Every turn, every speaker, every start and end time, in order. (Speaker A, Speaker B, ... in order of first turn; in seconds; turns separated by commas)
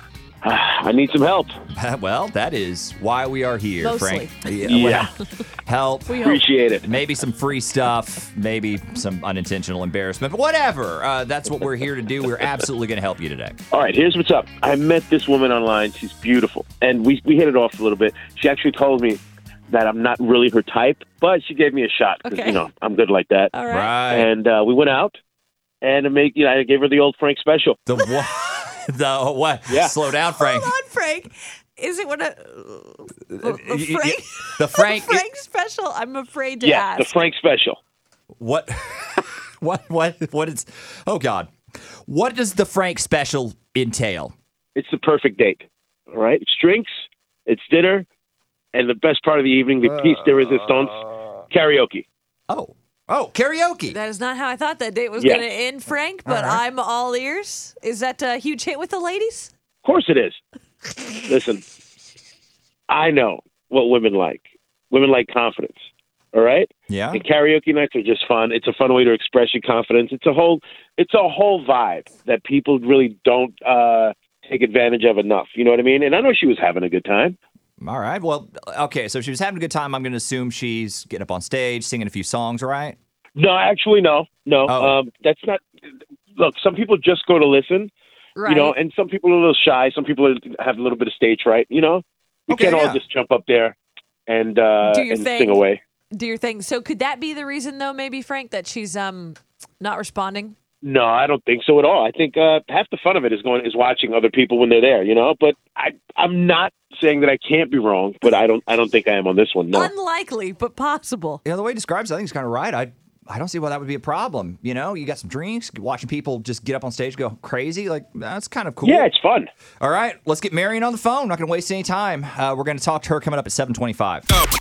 Speaker A: 0.4-1.6, Speaker B: 1.7-5.1, Speaker C: 3.8-4.6, Speaker A: 4.7-5.1, Speaker B: 5.7-6.2, Speaker C: 6.1-6.5, Speaker A: 6.2-6.9, Speaker B: 6.8-13.6, Speaker A: 13.7-23.5, Speaker C: 22.2-22.6, Speaker C: 23.5-24.0, Speaker B: 23.7-24.3, Speaker A: 24.1-25.2, Speaker A: 25.8-27.8, Speaker B: 27.9-30.7, Speaker A: 29.7-29.9, Speaker C: 30.4-37.1, Speaker B: 33.3-35.2, Speaker A: 36.6-37.8, Speaker B: 38.4-41.5, Speaker B: 42.1-44.3, Speaker A: 44.8-48.1, Speaker A: 48.7-52.1, Speaker B: 49.9-51.3, Speaker B: 52.5-54.0, Speaker C: 53.9-59.5, Speaker A: 55.2-55.5, Speaker B: 56.2-56.6, Speaker A: 59.8-60.4, Speaker A: 61.3-61.6, Speaker A: 62.9-77.4, Speaker B: 66.9-67.2, Speaker B: 77.8-83.0, Speaker A: 83.4-85.7, Speaker B: 84.7-85.0, Speaker A: 86.3-87.9, Speaker C: 88.4-88.7, Speaker A: 88.4-95.8, Speaker B: 92.5-93.0, Speaker C: 94.8-100.6, Speaker A: 100.8-109.9, Speaker C: 109.7-111.4, Speaker B: 111.4-119.1, Speaker A: 118.8-119.5, Speaker B: 119.8-124.3